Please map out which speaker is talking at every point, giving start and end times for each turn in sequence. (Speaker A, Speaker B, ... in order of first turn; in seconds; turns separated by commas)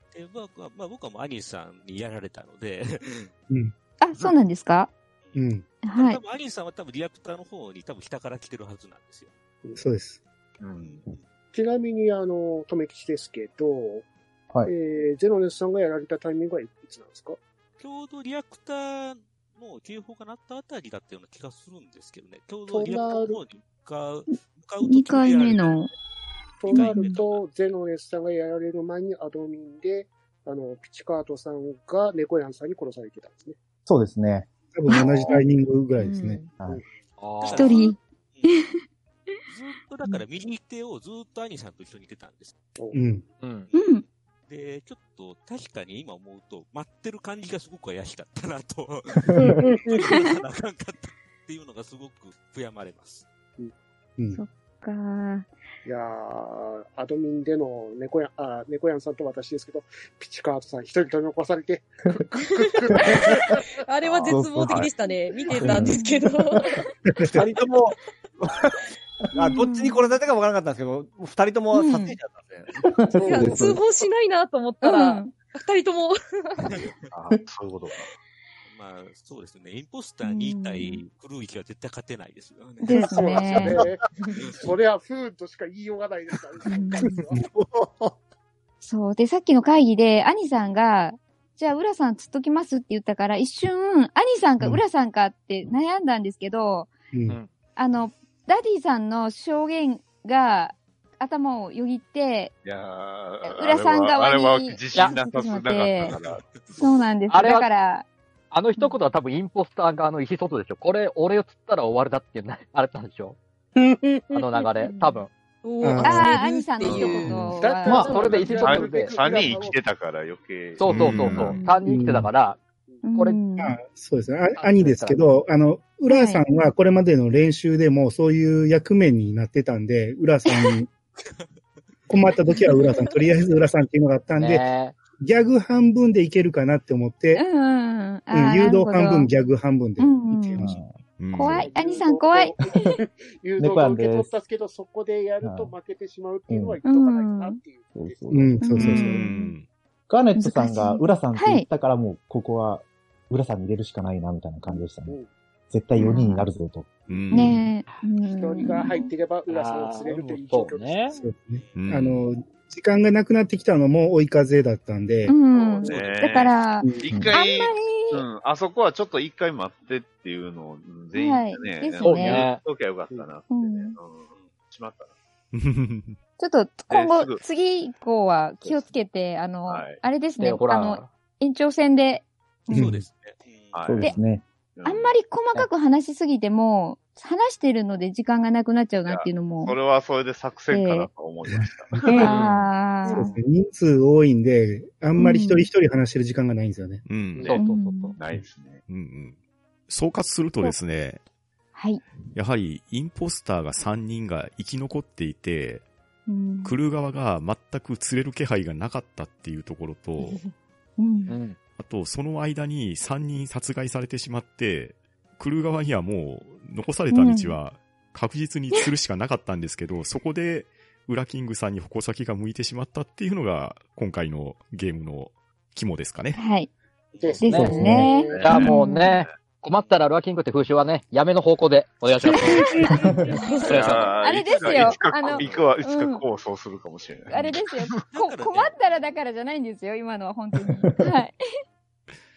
Speaker A: 0.1-3.3, Speaker B: 4.0-4.9, Speaker A: 5.2-9.3, Speaker C: 5.3-5.6, Speaker B: 5.8-6.2, Speaker C: 9.8-10.2, Speaker D: 10.7-11.0, Speaker A: 10.8-11.2, Speaker E: 11.5-14.1, Speaker E: 14.7-17.4, Speaker A: 17.8-25.8, Speaker E: 22.7-23.4, Speaker B: 24.8-25.9, Speaker E: 26.6-33.6, Speaker A: 26.7-27.4, Speaker B: 26.9-27.2, Speaker F: 33.9-34.5, Speaker C: 34.7-36.5, Speaker B: 36.0-36.4, Speaker F: 36.5-36.8, Speaker E: 36.6-36.8, Speaker G: 37.2-37.8, Speaker A: 37.4-38.7, Speaker B: 37.5-38.8, Speaker A: 39.5-42.5, Speaker C: 42.9-43.2, Speaker G: 43.4-43.7, Speaker A: 43.7-53.3, Speaker B: 43.7-44.0, Speaker E: 49.4-50.1, Speaker B: 54.3-55.5, Speaker E: 55.9-63.6, Speaker H: 63.8-66.9, Speaker D: 64.0-64.9, Speaker F: 64.2-64.9, Speaker F: 65.5-66.6, Speaker B: 65.7-66.2, Speaker C: 67.1-67.4, Speaker I: 67.3-68.8, Speaker I: 69.3-72.7, Speaker B: 69.7-70.0, Speaker B: 71.7-72.2, Speaker F: 72.8-73.8, Speaker H: 73.2-76.7, Speaker B: 74.8-75.3, Speaker D: 77.1-78.1, Speaker A: 78.7-83.3, Speaker B: 80.2-81.0, Speaker B: 82.8-83.8, Speaker E: 82.9-88.1, Speaker B: 86.7-87.1, Speaker B: 88.8-96.9, Speaker C: 97.1-97.4, Speaker B: 97.8-102.5, Speaker D: 102.6-106.9, Speaker B: 103.4-106.2, Speaker A: 106.0-106.8, Speaker B: 106.8-108.1, Speaker G: 107.3-107.7, Speaker G: 108.5-113.4, Speaker E: 113.8-114.6, Speaker G: 114.3-115.3, Speaker H: 115.6-117.5, Speaker C: 115.8-116.3, Speaker B: 116.0-118.4, Speaker D: 116.8-117.2, Speaker E: 117.5-119.8, Speaker G: 117.9-119.1, Speaker F: 117.9-118.2, Speaker D: 118.2-121.5, Speaker G: 120.8-122.6, Speaker J: 120.9-121.6, Speaker B: 121.5-121.8, Speaker C: 121.8-122.3, Speaker B: 123.0-123.8, Speaker G: 123.1-123.4, Speaker C: 123.6-130.9, Speaker G: 124.6-125.2, Speaker B: 126.1-126.4, Speaker C: 132.1-134.7, Speaker G: 134.4-135.0, Speaker C: 135.2-137.4, Speaker B: 137.3-139.3, Speaker C: 138.3-140.8, Speaker B: 140.0-140.7, Speaker F: 140.6-140.9, Speaker J: 141.2-141.7, Speaker B: 141.3-142.6, Speaker E: 141.6-148.5, Speaker F: 143.6-144.3, Speaker F: 145.4-145.7, Speaker F: 146.5-146.8, Speaker B: 146.8-147.6, Speaker F: 147.9-148.8, Speaker C: 148.3-149.2, Speaker B: 148.6-149.6, Speaker J: 148.8-149.7, Speaker F: 150.1-155.2, Speaker B: 150.4-151.7, Speaker E: 154.7-155.3, Speaker F: 155.7-157.6, Speaker B: 156.0-156.5, Speaker J: 157.1-157.6, Speaker B: 157.3-159.1, Speaker E: 158.2-161.2, Speaker G: 159.5-161.2, Speaker C: 161.2-165.4, Speaker A: 161.5-161.8, Speaker J: 161.7-162.3, Speaker B: 165.3-168.2, Speaker D: 165.5-175.2, Speaker E: 165.8-166.2, Speaker A: 165.8-166.5, Speaker F: 167.1-167.3, Speaker B: 171.1-172.5, Speaker G: 172.0-172.6, Speaker B: 173.5-174.0, Speaker J: 175.5-176.2, Speaker B: 176.4-183.0, Speaker D: 176.9-177.4, Speaker D: 178.6-178.9, Speaker D: 179.7-180.0, Speaker G: 180.4-181.1, Speaker C: 182.7-183.0, Speaker A: 182.7-184.1, Speaker D: 183.7-184.1, Speaker F: 183.9-184.4, Speaker D: 184.8-185.2, Speaker B: 184.8-189.8, Speaker D: 189.1-192.4, Speaker B: 190.7-191.1, Speaker C: 191.5-192.0, Speaker B: 192.1-193.3, Speaker G: 192.2-192.7, Speaker C: 193.1-197.0, Speaker B: 195.2-195.7, Speaker J: 197.1-197.5, Speaker G: 197.4-198.2, Speaker B: 197.5-198.2, Speaker D: 198.2-198.8, Speaker J: 198.9-199.4, Speaker J: 199.9-201.2, Speaker B: 201.8-202.0, Speaker J: 202.3-205.8, Speaker B: 206.3-206.8, Speaker J: 206.6-210.4, Speaker B: 211.0-211.4, Speaker G: 211.3-211.6, Speaker J: 211.8-226.4, Speaker B: 217.1-217.6, Speaker B: 226.3-226.7, Speaker A: 227.1-227.4, Speaker E: 227.2-228.5, Speaker B: 227.4-229.1, Speaker G: 227.4-233.1, Speaker F: 227.5-228.1, Speaker D: 228.1-228.7, Speaker B: 232.3-236.2, Speaker H: 233.4-233.7, Speaker A: 233.6-235.7, Speaker D: 233.6-238.0, Speaker G: 233.7-234.0, Speaker B: 237.3-241.3, Speaker A: 238.1-239.1, Speaker F: 240.8-241.1